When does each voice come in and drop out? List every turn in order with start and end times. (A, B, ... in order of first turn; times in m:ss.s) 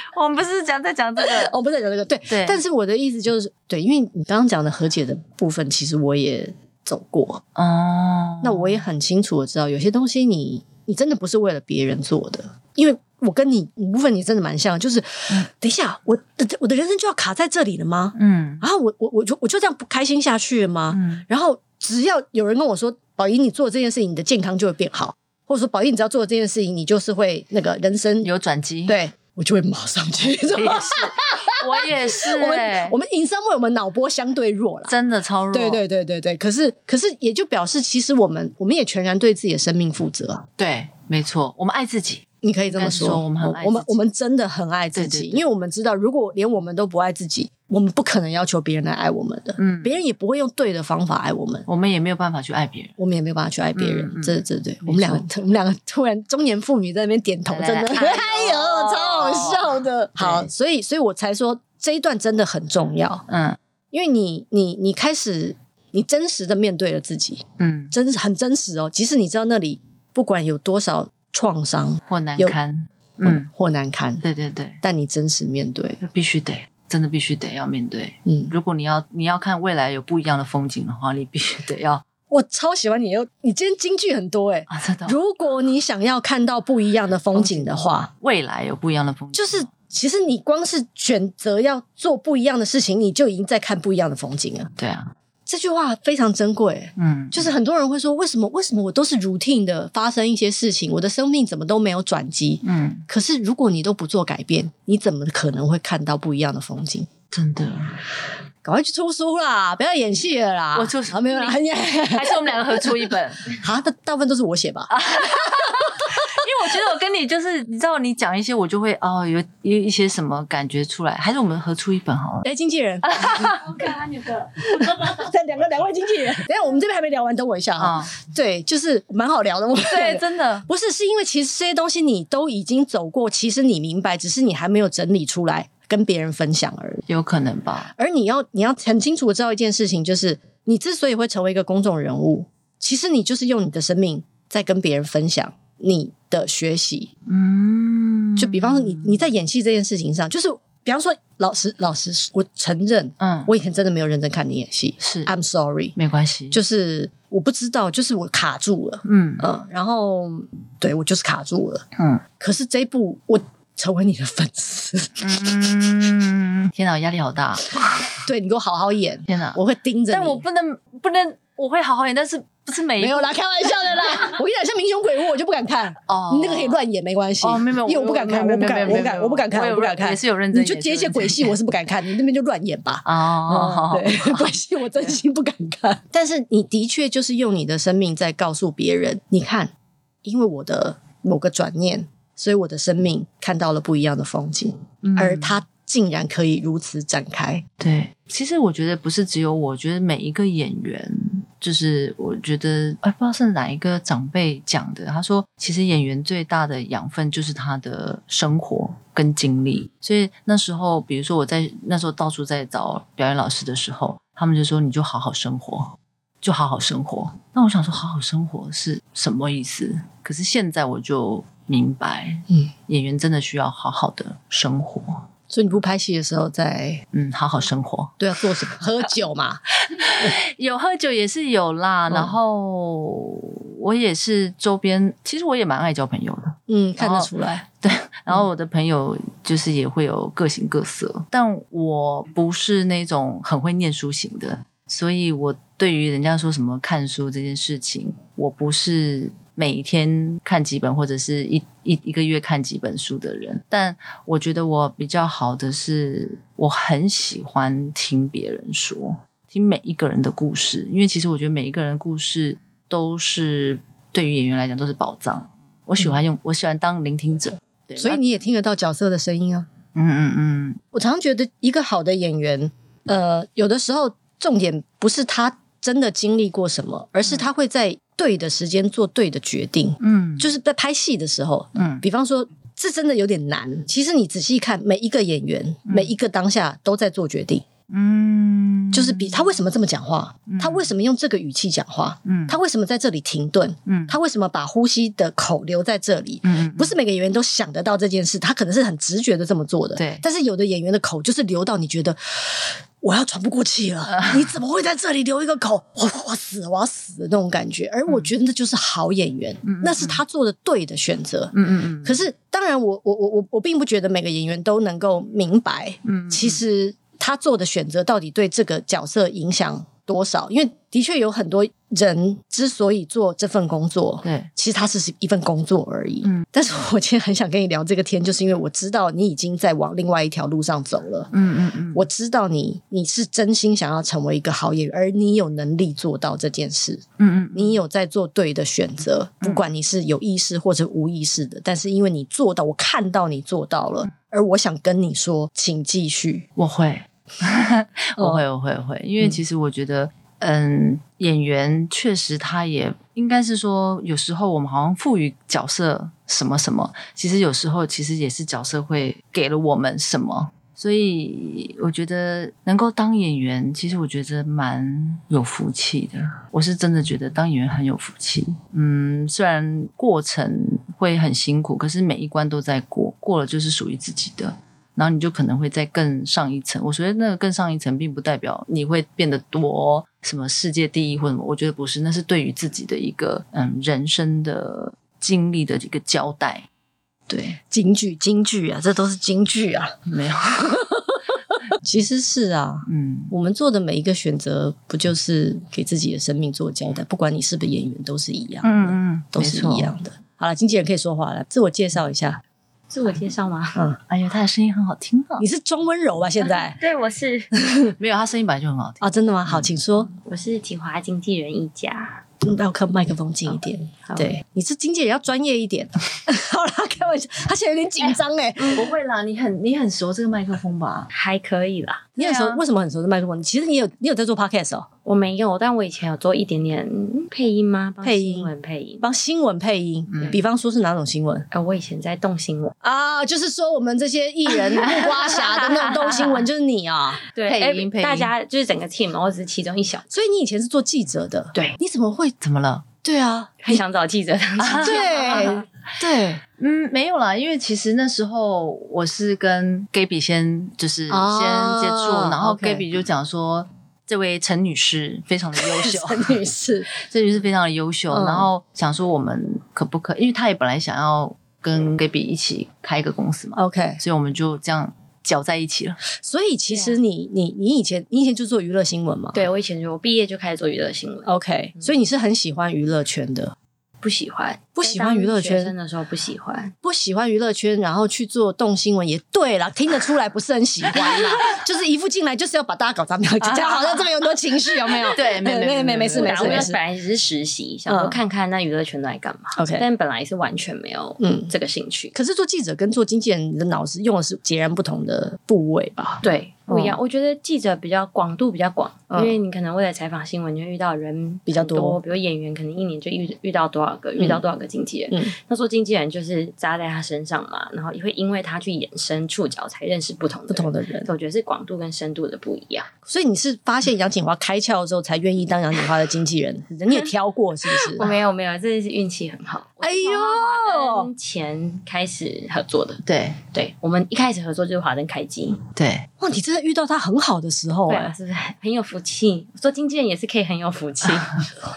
0:00.1-0:01.5 A
0:01.2-0:07.4 B
0:02.3-0:02.6 A
0:07.6-0:08.8 A
0:08.4-0:28.3 B
0:18.2-0:18.7 A
0:20.9-0:21.2 A
0:28.2-0:29.0 A
0:28.9-0:34.9 B
0:30.2-0:33.0 A
0:34.9-0:35.8 A
0:35.5-0:40.5 B
0:40.6-0:44.0 A
0:42.4-0:51.7 B
0:44.9-0:45.4 A
0:49.6-0:50.0 A
0:51.7-0:53.0 A
0:53.0-1:03.2 B
0:53.8-0:55.2 A
0:57.5-1:00.5 A
1:03.3-1:03.6 A
1:03.9-1:12.6 B
1:07.6-1:07.9 A
1:12.1-1:13.5 A
1:13.2-1:14.2 B
1:14.2-1:14.8 A
1:14.8-1:16.0 B
1:16.0-1:22.0 A
1:18.2-1:18.5 B
1:22.3-1:28.1 B
1:24.7-1:25.2 A
1:27.3-1:29.7 A
1:29.3-1:34.7 B
1:34.8-1:35.1 A
1:35.5-1:47.1 B
1:37.0-1:37.5 A
1:42.6-1:43.1 A
1:47.3-1:48.0 A
1:48.6-1:56.7 B
1:50.8-1:53.6 A
1:54.9-2:02.5 A
2:02.4-2:17.0 B
2:03.0-2:03.8 A
2:07.8-2:08.2 A
2:09.8-2:10.7 A
2:17.1-2:17.9 A
2:18.0-2:27.1 B
2:27.3-2:29.3 A
2:28.4-2:36.0 B
2:33.2-2:33.5 A
2:35.0-2:35.3 A
2:36.0-2:36.6 A
2:36.5-2:41.8 B
2:39.0-2:39.5 A
2:42.0-2:42.2 A
2:42.4-2:45.6 B
2:45.2-2:48.2 A
2:48.2-2:50.4 B
2:49.3-2:49.6 A
2:50.1-2:53.3 A
2:53.0-3:09.7 B
2:56.1-2:56.8 A
2:57.4-3:01.5 A
3:03.0-3:05.2 A
3:10.2-3:17.6 B
3:15.0-3:15.6 A
3:17.8-3:45.3 A
3:45.5-3:47.0 B
3:47.1-3:48.2 A
3:48.2-3:49.6 B
3:49.8-4:28.2 A
3:52.1-3:52.4 B
3:56.7-3:57.6 B
4:28.0-4:29.7 B
4:30.0-4:30.8 A
4:30.9-4:47.7 B
4:40.0-4:40.5 A
4:41.8-4:42.0 A
4:45.9-4:46.1 A
4:47.9-4:49.5 A
4:48.9-5:11.5 B
4:50.5-4:50.9 A
4:52.3-4:52.6 A
4:53.9-4:54.2 A
4:56.4-4:57.0 A
5:00.0-5:00.2 A
5:04.1-5:04.6 A
5:09.6-5:10.2 A
5:11.5-5:12.2 A
5:12.0-5:31.3 B
5:16.0-5:16.6 A
5:24.2-5:24.5 A
5:31.3-5:32.0 A
5:31.9-5:46.5 B
5:37.2-5:37.8 A
5:46.6-6:26.7 A
5:48.2-5:48.4 B
6:27.3-6:27.6 A
6:27.7-6:30.0 B
6:30.1-6:30.9 A
6:30.5-6:31.2 B
6:31.8-6:42.4 B
6:32.9-6:33.3 A
6:38.6-6:39.9 A
6:42.9-6:43.8 C
6:44.1-6:45.5 A
6:45.4-6:46.8 B
6:46.5-6:47.5 C
6:47.6-6:47.9 B
6:48.0-6:49.7 A
6:49.0-6:50.1 B
6:50.2-6:52.2 C
6:52.4-6:58.9 B
6:54.0-6:54.3 C
6:58.7-7:01.1 A
7:01.1-7:02.1 C
7:02.2-7:02.6 A
7:02.2-7:04.9 B
7:05.0-7:09.0 C
7:08.0-7:11.5 B
7:10.1-7:10.4 A
7:11.5-7:12.8 C
7:12.8-7:17.2 B
7:14.8-7:16.2 A
7:17.3-7:20.1 C
7:17.5-7:18.3 A
7:20.1-7:22.4 B
7:22.4-7:22.9 A
7:23.0-7:23.8 B
7:23.6-7:25.7 C
7:24.6-7:25.6 A
7:24.8-7:26.4 B
7:26.6-7:36.4 A
7:31.1-7:32.8 B
7:35.6-7:36.9 B
7:37.0-7:46.0 A
7:38.1-7:38.5 B
7:43.6-7:44.0 B
7:46.1-7:49.4 B
7:46.7-7:47.0 C
7:49.3-7:51.9 C
7:51.3-7:53.6 B
7:54.0-7:56.7 C
7:54.8-7:55.7 B
7:56.8-8:06.8 B
8:03.4-8:04.1 A
8:04.9-8:06.7 A
8:06.1-8:12.2 C
8:07.9-8:08.2 B
8:09.6-8:09.9 B
8:11.2-8:11.5 B
8:12.1-8:17.0 B
8:16.2-8:32.9 C
8:19.1-8:19.4 B
8:21.5-8:22.0 B
8:24.2-8:24.4 B
8:30.5-8:31.1 B
8:33.1-8:38.2 B
8:37.8-8:45.6 C
8:39.8-8:41.1 B
8:43.0-8:43.4 A
8:45.8-8:46.1 A
8:46.2-8:48.1 B
8:47.9-8:51.5 C